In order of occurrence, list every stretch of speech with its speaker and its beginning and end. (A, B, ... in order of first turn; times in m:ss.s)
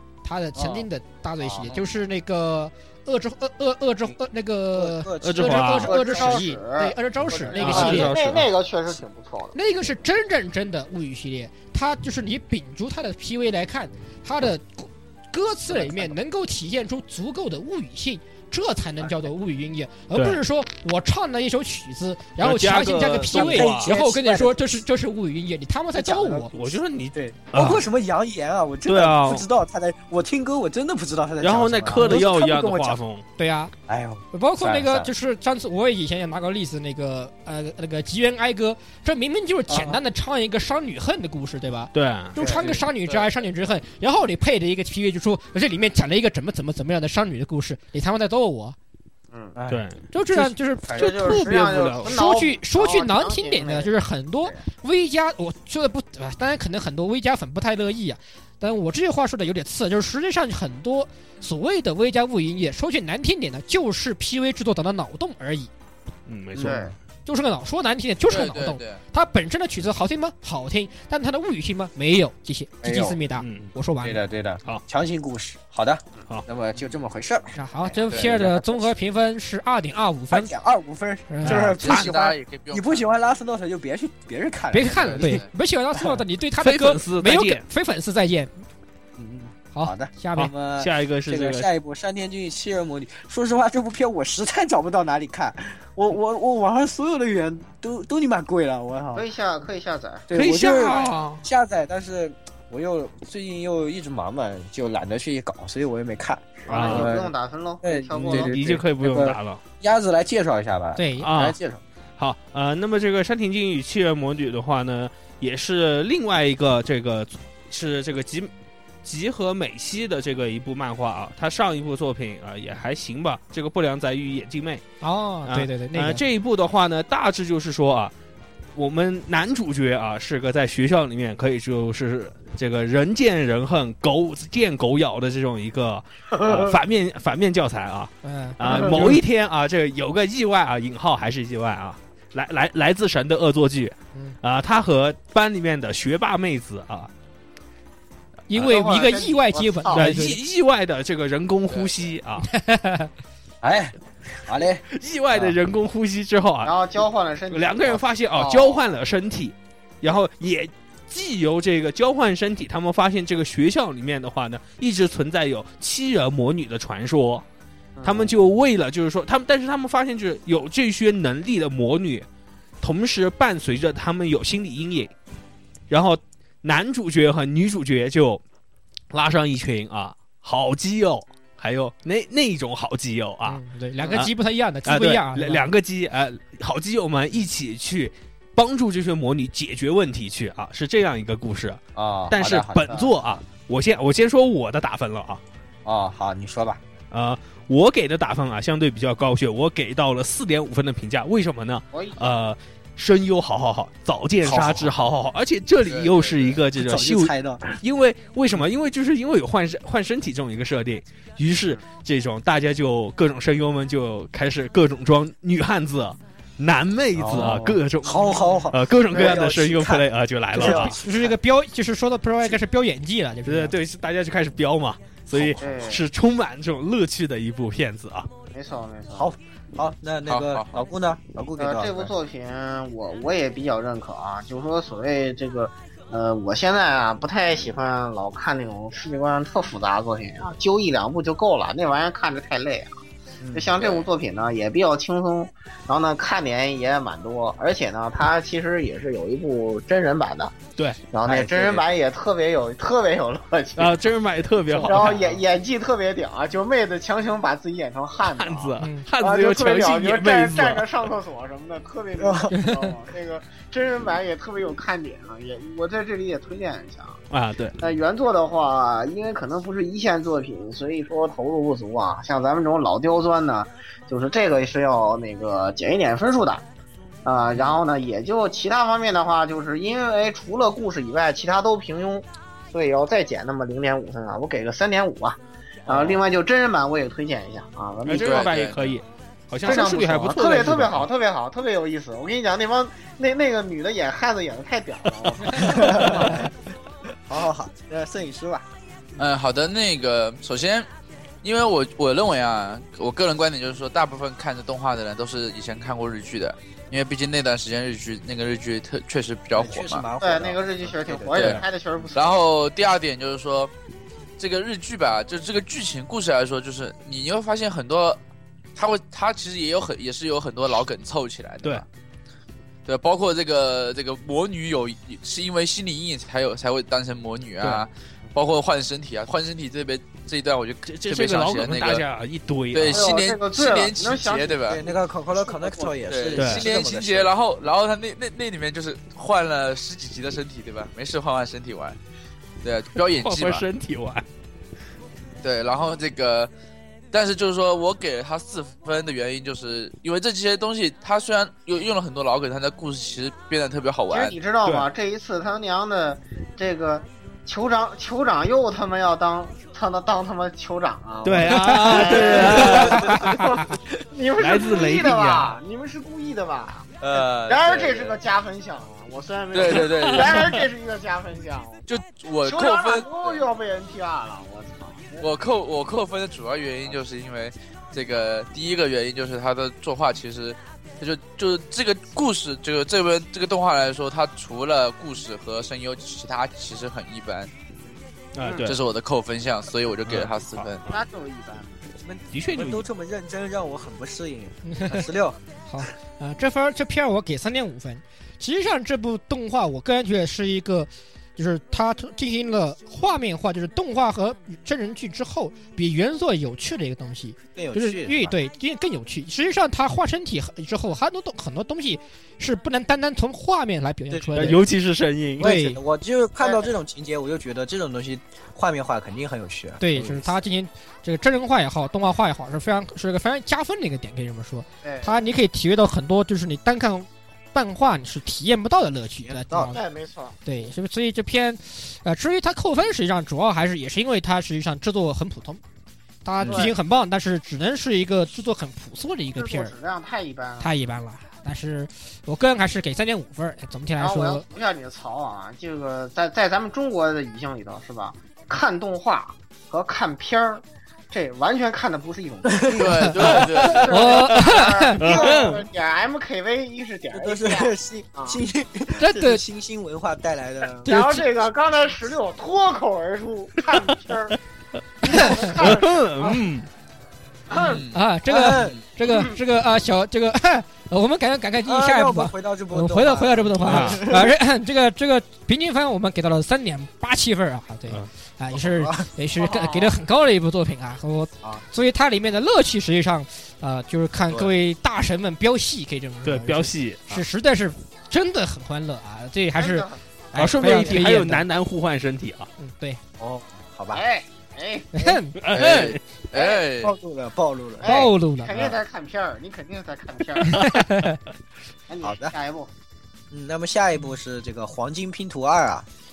0:00.2-0:08.2 A
0:00.6-0:00.9 B
0:04.7-0:06.4 B
0:05.2-0:05.9 C
0:05.8-0:09.6 D
0:07.3-0:08.1 B
0:07.6-0:08.5 C
0:09.5-0:26.5 A
0:20.1-0:20.4 C
0:22.4-0:23.9 C
0:23.3-0:24.6 B
0:25.9-0:33.0 B
0:26.5-0:27.8 C
0:28.9-0:29.4 C
0:31.4-0:33.2 C
0:31.9-0:32.2 A
0:33.4-0:33.7 A
0:33.9-0:35.1 B
0:34.3-0:48.8 A
0:39.7-0:40.0 B
0:41.9-0:42.8 C
0:42.4-0:42.7 D
0:43.1-0:43.4 E
0:49.5-0:49.8 B
0:49.7-0:52.2 C
0:50.1-1:05.7 A
0:50.9-0:53.9 D
1:06.3-1:06.9 C
1:06.5-1:06.9 B
1:06.6-1:06.9 D
1:07.2-1:14.2 A
1:08.2-1:09.0 E
1:12.8-1:13.2 B
1:13.4-1:13.7 C
1:14.0-1:18.9 B
1:17.5-1:20.5 A
1:18.1-1:18.4 E
1:20.3-1:25.4 B
1:21.3-1:21.6 A
1:21.4-1:22.2 C
1:21.7-1:23.0 E
1:24.7-1:28.5 A
1:24.9-1:25.5 E
1:26.6-1:27.6 C
1:29.2-1:39.3 B
1:29.7-1:30.5 A
1:30.4-1:31.7 C
1:39.1-1:40.2 D
1:40.3-1:51.8 B
1:40.3-1:41.4 C
1:46.7-1:48.5 D
1:46.7-1:47.1 C
1:48.2-1:49.6 C
1:51.0-1:51.3 A
1:51.2-1:51.6 C
1:52.2-1:58.5 C
1:59.0-2:04.8 C
2:05.0-2:06.2 A
2:05.4-2:08.1 C
2:08.7-2:27.1 C
2:16.4-2:16.7 D
2:18.2-2:19.1 A
2:28.5-2:30.4 A
2:28.6-2:30.2 D
2:29.9-2:32.5 C
2:31.7-2:32.2 E
2:32.4-2:33.1 A
2:33.6-2:35.6 B
2:34.9-2:36.7 C
2:36.6-2:38.8 D
2:37.5-2:47.4 C
2:48.0-2:48.3 D
2:48.0-2:52.2 C
2:52.8-2:55.1 C
2:55.9-2:58.4 C
2:59.1-3:04.3 C
3:03.4-3:05.6 A
3:04.8-3:15.4 C
3:11.9-3:13.1 B
3:12.9-3:13.1 D
3:15.8-3:16.8 B
3:17.1-3:41.0 C
3:21.9-3:22.3 D
3:24.4-3:25.0 B
3:25.8-3:26.6 E
3:26.8-3:27.8 B
3:37.1-3:41.3 B
3:40.6-3:43.7 A
3:43.4-3:48.3 C
3:45.3-3:45.7 B
3:45.6-3:46.0 D
3:48.5-3:49.3 D
3:49.1-3:52.1 B
3:50.3-3:50.8 E
3:51.6-4:02.9 D
4:03.4-4:03.8 B
4:03.5-4:10.6 D
4:03.8-4:04.1 E
4:11.1-4:14.0 D
4:11.2-4:11.9 B
4:13.8-4:15.3 C
4:14.8-4:27.2 D
4:18.2-4:20.9 C
4:18.8-4:19.0 A
4:22.2-4:22.5 B
4:22.5-4:22.9 A
4:27.3-4:27.8 C
4:27.8-4:36.6 D
4:37.2-4:48.5 D
4:45.9-4:46.2 B
4:48.0-4:51.1 C
4:48.2-4:49.0 E
4:49.6-4:56.5 D
4:55.5-4:56.5 B
4:57.2-4:58.7 B
4:59.2-5:00.9 E
5:01.4-5:10.0 E
5:09.5-5:11.6 B
5:10.2-5:12.4 D
5:11.3-5:11.6 E
5:11.4-5:11.6 C
5:12.1-5:13.7 E
5:14.4-5:18.2 E
5:18.8-5:21.9 E
5:22.8-5:32.0 E
5:30.8-5:33.0 C
5:32.7-5:34.8 E
5:32.9-5:34.8 D
5:34.6-5:37.3 B
5:35.3-5:36.0 D
5:36.1-5:42.0 E
5:36.4-5:36.6 C
5:42.6-5:43.6 E
5:43.2-5:44.2 C
5:45.4-5:46.5 E
5:47.1-5:54.4 E
5:54.1-6:11.9 D
6:01.2-6:03.4 C
6:01.5-6:02.0 A
6:04.4-6:05.5 C
6:07.0-6:08.2 E
6:09.5-6:10.4 E
6:11.9-6:13.5 E
6:12.4-6:15.3 D
6:15.2-6:27.5 E
6:28.3-6:28.8 C
6:28.4-6:28.7 D
6:28.6-6:30.9 E
6:30.1-6:30.9 C
6:30.9-6:31.9 D
6:32.0-6:35.4 B
6:32.3-6:32.8 C
6:34.7-6:35.0 A
6:35.7-6:54.6 A
6:47.5-6:48.4 B
6:54.1-6:54.6 B
6:54.3-6:55.5 C
6:55.4-7:00.4 B
6:55.4-6:55.8 A
6:56.4-6:56.7 D
6:59.8-7:09.8 A
7:04.8-7:05.2 D
7:09.2-7:09.7 B
7:09.7-7:10.4 D
7:10.4-7:15.6 A
7:16.2-7:19.7 A
7:16.4-7:16.7 B
7:16.4-7:16.7 D
7:19.4-7:20.7 D
7:20.6-7:24.4 A
7:24.0-7:38.4 D
7:32.5-7:33.4 B
7:32.7-7:34.1 E
7:33.9-7:35.0 A
7:35.0-7:35.6 C
7:35.0-7:35.6 B
7:37.1-7:41.0 B
7:39.0-7:39.4 A
7:40.8-7:44.4 D
7:40.8-7:41.2 A
7:45.0-7:46.0 D
7:45.0-7:45.5 A
7:45.4-7:46.7 C
7:47.5-7:47.8 D
7:47.6-7:48.0 E
7:47.9-8:11.4 A
7:48.3-7:48.8 B
7:49.1-7:49.4 D
7:51.6-7:54.3 B
7:53.7-7:54.0 C
7:58.5-7:59.1 B
7:59.4-8:00.0 D
8:06.2-8:07.0 C
8:09.6-8:10.0 D
8:10.3-8:12.5 C
8:12.6-8:13.0 A
8:13.2-8:14.0 B
8:13.9-8:14.9 D
8:14.9-8:15.4 A
8:15.4-8:16.0 C
8:15.5-8:16.9 E
8:15.5-8:15.9 B
8:16.3-8:16.6 D
8:16.8-8:18.7 B
8:17.8-8:20.8 D
8:17.8-8:18.5 A
8:20.4-8:21.2 A
8:21.9-8:22.7 D
8:22.0-8:22.3 B
8:23.3-8:25.9 B